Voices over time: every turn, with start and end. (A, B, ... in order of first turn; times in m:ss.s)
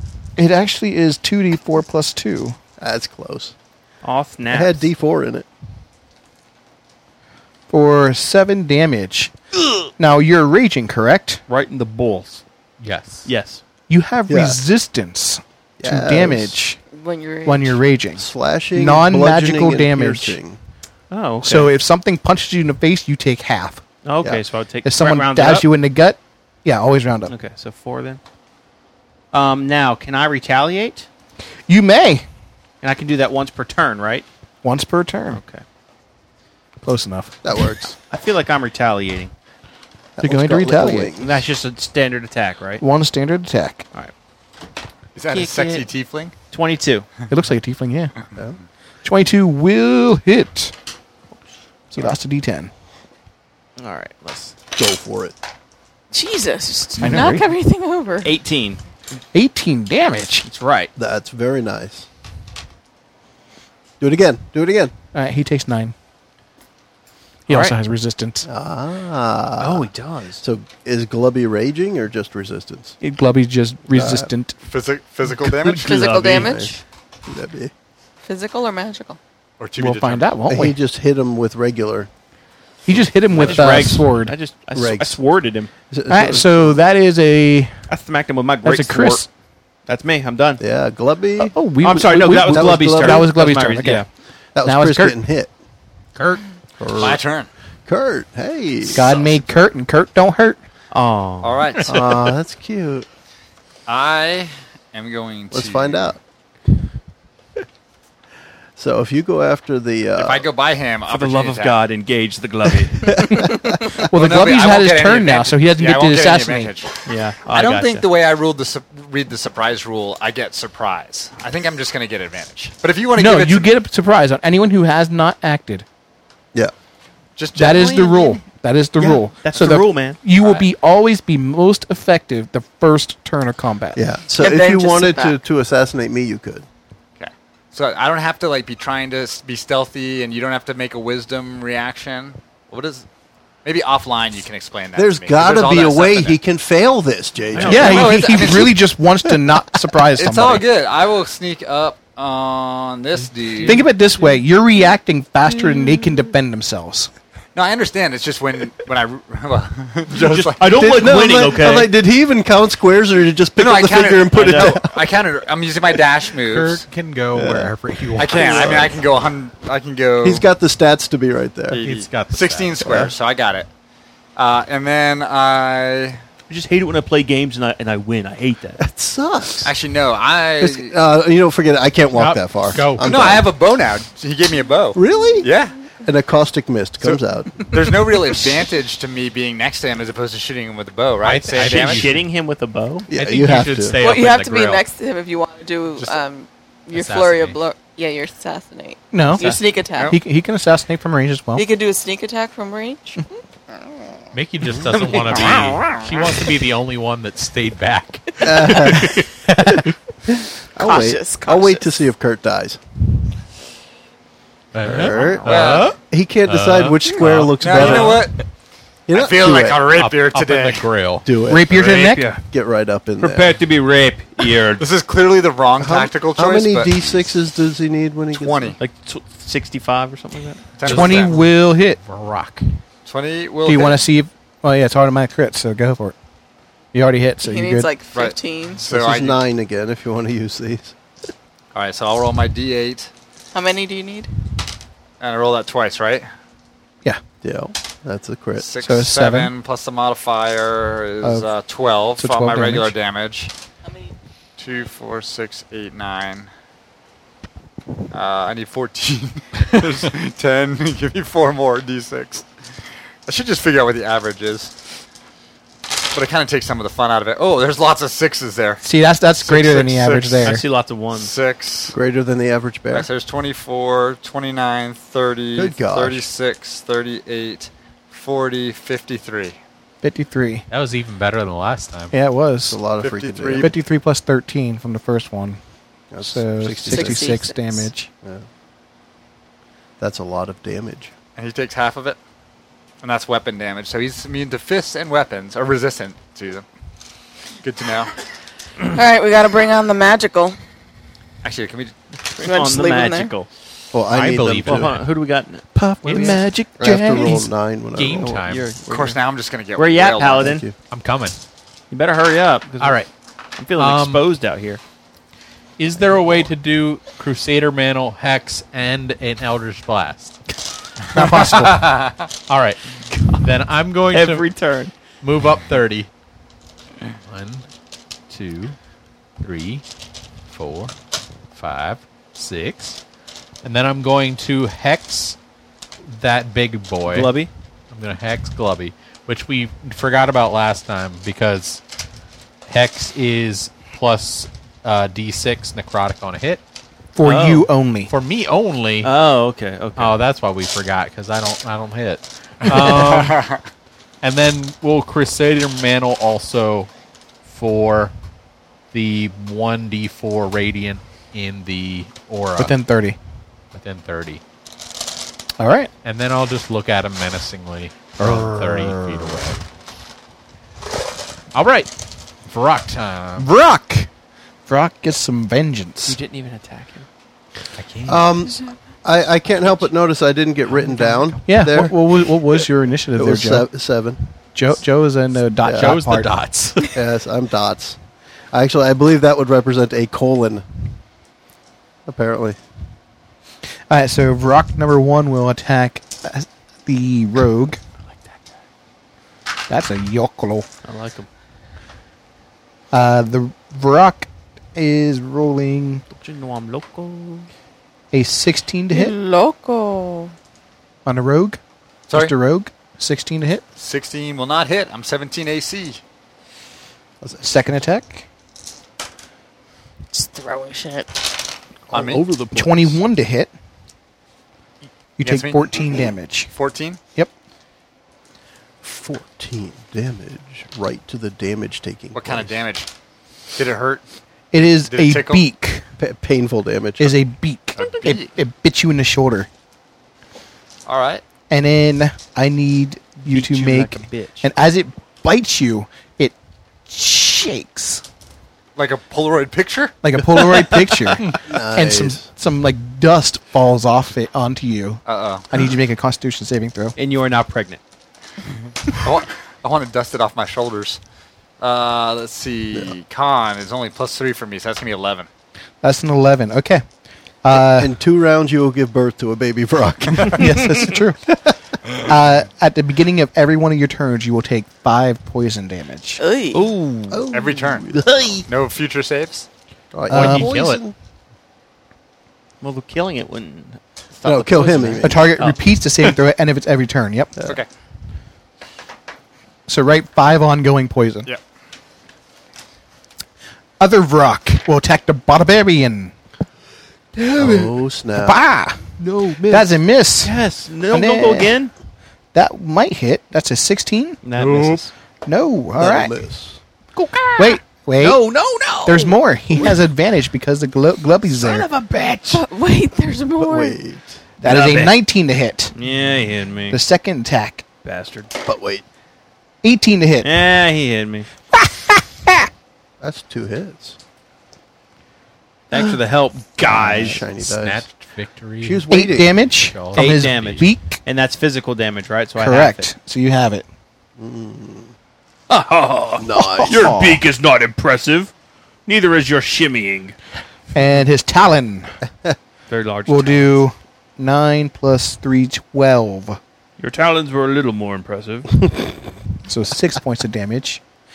0:00.4-0:02.6 A
0:02.8-0:03.6 B
0:04.0-0:04.9 C
0:04.5-0:05.5 B
0:07.7-0:09.3 A
0:10.0-0:11.4 A
0:11.5-0:12.4 C
0:12.8-0:13.3 D
0:13.3-0:13.6 C
0:13.9-0:16.8 A
0:14.3-0:14.6 B
0:15.8-0:16.6 B
0:16.9-0:17.8 E
0:17.5-0:20.4 A
0:18.2-0:20.6 B
0:21.1-0:21.7 C
0:21.4-0:23.8 A
0:24.0-0:25.7 C
0:24.8-0:27.3 A
0:27.3-0:28.2 C
0:29.3-0:31.1 C
0:31.7-0:32.2 A
0:32.8-0:34.3 C
0:34.6-0:35.4 A
0:35.3-0:35.6 C
0:36.8-0:37.4 A
0:37.4-0:38.0 B
0:38.1-0:39.3 C
0:40.2-0:41.4 B
0:40.2-0:41.1 A
0:41.2-0:42.8 C
0:42.8-0:43.8 A
0:45.2-0:46.3 F
0:45.3-0:45.9 C
0:46.5-0:47.1 C
0:47.3-0:48.1 A
0:49.0-0:50.7 A
0:51.9-0:52.7 A
0:53.8-0:54.6 C
0:54.8-0:55.4 B
0:56.1-0:58.3 E
0:57.0-0:57.5 A
0:57.0-0:57.4 C
0:58.2-0:58.8 C
0:59.3-1:00.5 A
1:00.4-1:00.9 C
1:01.0-1:02.1 B
1:04.0-1:04.9 B
1:05.1-1:05.9 A
1:07.5-1:08.5 A
1:07.5-1:07.8 C
1:08.4-1:09.9 B
1:09.6-1:10.4 C
1:10.4-1:13.0 B
1:13.0-1:14.6 A
1:13.9-1:14.3 B
1:14.7-1:16.0 F
1:15.8-1:16.7 C
1:15.8-1:16.8 E
1:16.4-1:16.7 B
1:17.3-1:17.7 B
1:18.2-1:19.2 E
1:19.6-1:20.3 F
1:19.8-1:20.8 A
1:20.5-1:22.1 B
1:22.9-1:24.3 A
1:23.3-1:25.7 C
1:23.4-1:23.9 B
1:24.7-1:25.2 B
1:25.9-1:26.8 B
1:26.1-1:27.8 A
1:27.9-1:29.3 C
1:28.6-1:29.3 A
1:29.9-1:30.6 C
1:30.6-1:31.6 B
1:31.4-1:34.1 A
1:31.8-1:34.1 C
1:32.4-1:33.3 B
1:34.6-1:35.5 B
1:34.6-1:35.2 A
1:36.2-1:36.4 D
1:36.8-1:37.2 B
1:37.0-1:37.5 F
1:37.9-1:39.0 B
1:38.9-1:40.6 A
1:38.9-1:39.5 F
1:40.9-1:41.8 C
1:41.4-1:42.2 F
1:41.9-1:43.1 B
1:43.9-1:46.1 F
1:45.5-1:46.2 B
1:48.8-1:50.5 B
1:50.2-1:51.8 F
1:51.1-1:53.3 C
1:53.1-1:53.7 B
1:53.3-1:56.7 A
1:53.9-2:03.7 F
1:57.1-1:58.1 C
2:03.2-2:05.8 A
2:07.4-2:08.4 F
2:07.6-2:14.0 A
2:09.0-2:10.2 C
2:10.4-2:10.7 F
2:14.0-2:16.7 B
2:14.4-2:15.4 E
2:17.2-2:23.1 F
2:23.6-2:26.4 F
2:25.0-2:28.3 B
2:27.5-2:28.1 C
2:27.6-2:28.8 F
2:27.6-2:30.6 A
2:30.2-2:33.8 F
2:33.6-2:37.1 A
2:37.6-2:40.7 F
2:40.1-2:41.9 C
2:40.7-2:45.0 B
2:43.6-2:46.8 F
2:44.4-2:44.7 C
2:46.4-2:48.9 D
2:47.3-2:49.0 B
2:48.2-2:50.5 F
2:50.2-2:51.8 B
2:51.7-2:53.7 F
2:51.8-2:52.9 D
2:52.8-2:53.1 B
2:54.4-2:56.2 F
2:56.5-2:58.8 C
2:58.8-2:59.7 B
2:59.6-3:01.0 F
3:00.6-3:03.5 B
3:02.1-3:03.3 D
3:03.0-3:05.8 F
3:05.0-3:05.5 B
3:06.0-3:08.1 B
3:07.0-3:12.0 F
3:11.2-3:12.3 D
3:11.6-3:13.1 C
3:13.1-3:14.0 B
3:13.1-3:14.8 D
3:14.0-3:20.2 E
3:16.9-3:17.6 D
3:19.1-3:19.6 A
3:20.1-3:21.6 A
3:21.6-3:23.2 E
3:24.3-3:29.7 D
3:28.4-3:29.2 B
3:29.5-3:29.8 A
3:30.3-3:32.8 B
3:30.8-3:31.9 E
3:34.7-3:38.3 D
3:34.8-3:38.3 B
3:34.9-3:35.9 C
3:35.5-3:35.9 F
3:37.6-3:38.4 F
3:39.1-3:39.9 B
3:39.1-3:40.9 F
3:39.9-3:41.3 D
3:41.2-3:43.6 B
3:41.5-3:42.3 A
3:41.8-3:42.4 C
3:43.2-3:44.9 C
3:44.8-3:47.3 F
3:45.8-3:48.8 B
3:48.3-3:48.8 F
3:48.8-3:50.7 C
3:50.8-3:51.3 F
3:50.8-3:52.7 D
3:50.9-3:52.0 A
3:53.1-3:54.0 F
3:53.6-3:56.2 A
3:56.9-3:57.9 A
3:57.4-3:58.8 E
3:58.1-3:59.4 F
3:58.8-4:01.0 B
4:01.7-4:03.1 F
4:03.5-4:04.3 E
4:05.2-4:06.3 F
4:07.4-4:08.7 B
4:08.6-4:13.5 F
4:08.8-4:09.5 A
4:11.2-4:11.5 A
4:12.2-4:12.9 A
4:14.6-4:16.5 F
4:18.1-4:22.5 F
4:23.3-4:24.7 F
4:26.1-4:28.8 F
4:28.8-4:30.6 A
4:29.4-4:30.6 F
4:30.4-4:31.3 C
4:31.1-4:32.0 F
4:31.9-4:33.1 B
4:32.9-4:39.6 F
4:35.6-4:36.3 B
4:40.0-4:40.7 A
4:40.7-4:42.1 D
4:42.1-4:42.8 A
4:42.7-4:43.7 B
4:43.0-4:43.7 F
4:43.6-4:45.6 A
4:46.1-4:47.4 B
4:46.2-4:48.1 A
4:46.9-4:47.9 E
4:50.0-4:51.1 B
4:51.4-4:52.2 F
4:53.0-4:56.7 F
4:57.6-4:58.1 F
4:58.9-5:00.6 E
5:01.4-5:01.9 F
5:02.3-5:03.5 C
5:02.4-5:03.3 E
5:03.9-5:05.0 B
5:04.1-5:05.0 D
5:04.6-5:06.4 C
5:05.8-5:07.5 A
5:06.0-5:08.5 B
5:07.9-5:08.7 D
5:08.3-5:09.2 C
5:08.9-5:10.5 F
5:09.8-5:10.7 C
5:10.3-5:10.8 B
5:10.9-5:11.4 D
5:11.9-5:13.0 C
5:12.8-5:13.1 D
5:13.6-5:14.8 C
5:13.8-5:14.2 D
5:15.8-5:20.4 D
5:21.1-5:21.9 A
5:21.2-5:24.5 D
5:21.8-5:22.3 F
5:24.1-5:24.9 C
5:25.2-5:26.1 D
5:27.3-5:27.7 D
5:28.3-5:28.8 D
5:29.4-5:29.8 D
5:30.5-5:30.9 D
5:31.5-5:33.0 D
5:33.6-5:35.4 D
5:36.0-5:37.4 D
5:37.1-5:37.5 C
5:37.9-5:41.8 D
5:42.7-5:46.6 D
5:47.2-5:48.1 A
5:47.2-5:47.7 C
5:48.1-5:49.1 D
5:49.0-5:50.2 C
5:50.0-5:53.4 D
5:52.7-5:53.6 F
5:52.7-5:53.0 A
5:54.2-5:56.9 D
5:57.5-5:58.1 D
5:58.9-6:02.8 D
6:02.6-6:03.2 A
6:03.7-6:04.4 D
6:05.6-6:05.9 A
6:06.0-6:09.6 D
6:08.2-6:09.4 A
6:11.5-6:13.5 D
6:13.4-6:14.1 A
6:14.7-6:16.2 A
6:16.0-6:17.1 C
6:17.8-6:18.3 D
6:18.1-6:22.0 B
6:20.7-6:21.2 C
6:21.4-6:23.7 A
6:23.2-6:24.3 B
6:24.6-6:26.4 A
6:25.6-6:26.0 B
6:25.7-6:27.0 D
6:26.9-6:28.0 B
6:28.5-6:30.7 B
6:32.1-6:32.6 B
6:33.9-6:37.8 A
6:38.1-6:38.5 C
6:39.7-6:40.7 A
6:40.8-6:41.3 C
6:42.9-6:46.0 A
6:46.1-6:47.5 C
6:48.1-6:49.2 A
6:48.9-6:50.3 E
6:51.0-6:51.6 A
6:52.1-6:52.3 F
6:52.1-6:53.6 A
6:53.8-6:56.0 F
6:57.4-6:58.2 A
7:00.1-7:01.1 E
7:01.9-7:03.0 B
7:01.9-7:02.2 F
7:02.6-7:03.5 A
7:05.2-7:06.5 A
7:05.2-7:05.9 F
7:06.5-7:07.0 F
7:08.8-7:12.6 B
7:12.1-7:12.9 F
7:13.6-7:14.0 F
7:14.5-7:15.8 A
7:14.9-7:15.4 F
7:16.0-7:17.2 B
7:17.0-7:19.5 A
7:17.8-7:18.3 F
7:20.9-7:21.2 F
7:21.5-7:26.3 A
7:23.2-7:24.5 C
7:26.9-7:28.0 A
7:28.8-7:30.0 F
7:30.0-7:37.0 A
7:31.4-7:32.3 B
7:35.1-7:35.5 F
7:37.0-7:37.8 C
7:38.9-7:41.0 F
7:41.6-7:45.3 F
7:45.8-7:46.8 A
7:47.4-7:47.9 A
7:47.6-7:51.0 B
7:50.3-7:51.2 A
7:52.1-7:56.2 A
7:56.2-7:56.7 E
7:56.5-7:57.3 C
7:57.1-7:58.4 B
7:57.3-7:59.5 F
7:58.1-7:58.4 C
7:59.9-8:00.9 B
8:00.1-8:00.8 D
8:00.1-8:00.6 A
8:02.6-8:06.1 C
8:04.2-8:05.3 B
8:05.0-8:07.3 A
8:09.7-8:11.3 A
8:13.8-8:16.1 A
8:17.2-8:17.5 C
8:17.4-8:18.4 B
8:17.4-8:18.8 A
8:19.0-8:21.7 C
8:19.4-8:20.4 A
8:20.9-8:21.6 A
8:22.3-8:24.2 A
8:24.2-8:24.9 C
8:24.4-8:24.8 D
8:25.2-8:26.1 A
8:25.8-8:26.6 B
8:27.0-8:29.8 C
8:27.4-8:28.2 A
8:28.8-8:31.7 A
8:31.3-8:32.4 C
8:32.3-8:33.8 E
8:33.4-8:34.2 B
8:34.4-8:35.7 A
8:34.4-8:35.0 C
8:35.7-8:36.8 C
8:36.7-8:37.6 A
8:37.8-8:38.3 C
8:38.4-8:38.8 B
8:39.6-8:40.3 A
8:40.2-8:41.3 C
8:41.5-8:42.5 A
8:43.0-8:44.0 B
8:45.7-8:47.2 C
8:46.7-8:47.9 B
8:46.7-8:47.1 A
8:47.3-8:50.6 D
8:48.6-8:49.4 B
8:48.9-8:51.0 A
8:49.9-8:52.9 C
8:52.4-8:53.6 A
8:54.2-8:54.9 B
8:55.5-8:58.3 C
8:56.2-8:56.9 B
8:56.4-8:57.2 A
8:58.9-9:00.2 C
9:00.7-9:01.9 A
9:02.7-9:03.6 C
9:03.1-9:06.4 A
9:06.8-9:08.5 C
9:09.5-9:10.8 A